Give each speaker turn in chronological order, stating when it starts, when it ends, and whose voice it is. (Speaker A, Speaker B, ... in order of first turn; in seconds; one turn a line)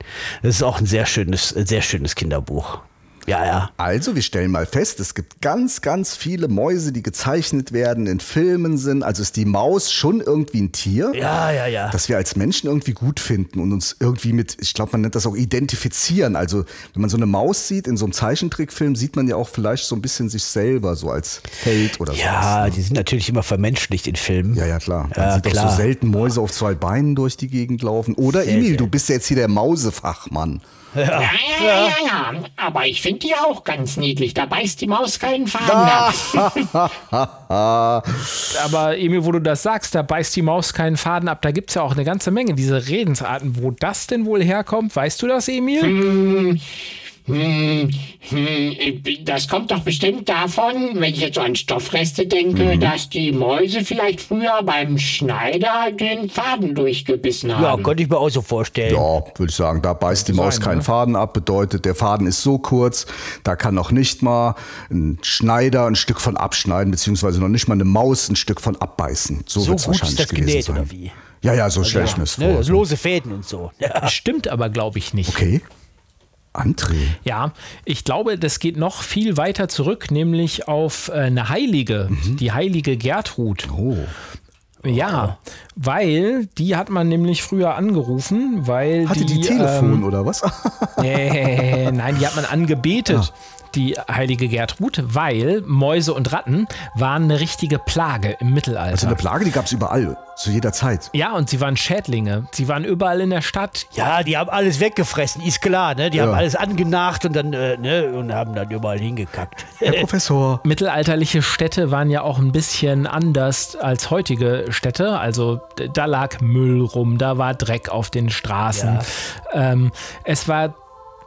Speaker A: 0.4-3.7
Speaker B: 3.8-11.2
Speaker A: 11.1-12.0
Speaker B: 11.9-22.8
Speaker A: 22.1-25.9
Speaker B: 24.5-30.6
Speaker A: 28.3-28.9
Speaker A: 30.9-32.0
Speaker C: 31.1-36.7
Speaker B: 35.6-38.5
Speaker D: 38.5-46.0
Speaker C: 45.8-46.6
Speaker C: 47.2-57.9
Speaker B: 52.5-52.9
Speaker A: 57.6-59.1
Speaker B: 58.9-70.9
Speaker D: 60.1-60.9
Speaker A: 69.6-71.2
Speaker B: 71.4-72.8
Speaker A: 71.8-74.1
Speaker D: 74.0-75.4
Speaker B: 75.2-75.6
Speaker B: 76.5-77.2
Speaker D: 77.2-83.7
Speaker B: 82.1-82.4
Speaker B: 83.6-84.1
Speaker D: 84.8-90.1
Speaker A: 84.8-85.3
Speaker B: 89.0-92.1
Speaker D: 91.0-99.2
Speaker B: 98.9-101.1
Speaker D: 101.1-103.9
Speaker A: 104.0-110.1
Speaker B: 106.1-106.5
Speaker B: 109.8-110.6
Speaker D: 110.6-120.8
Speaker A: 118.7-119.0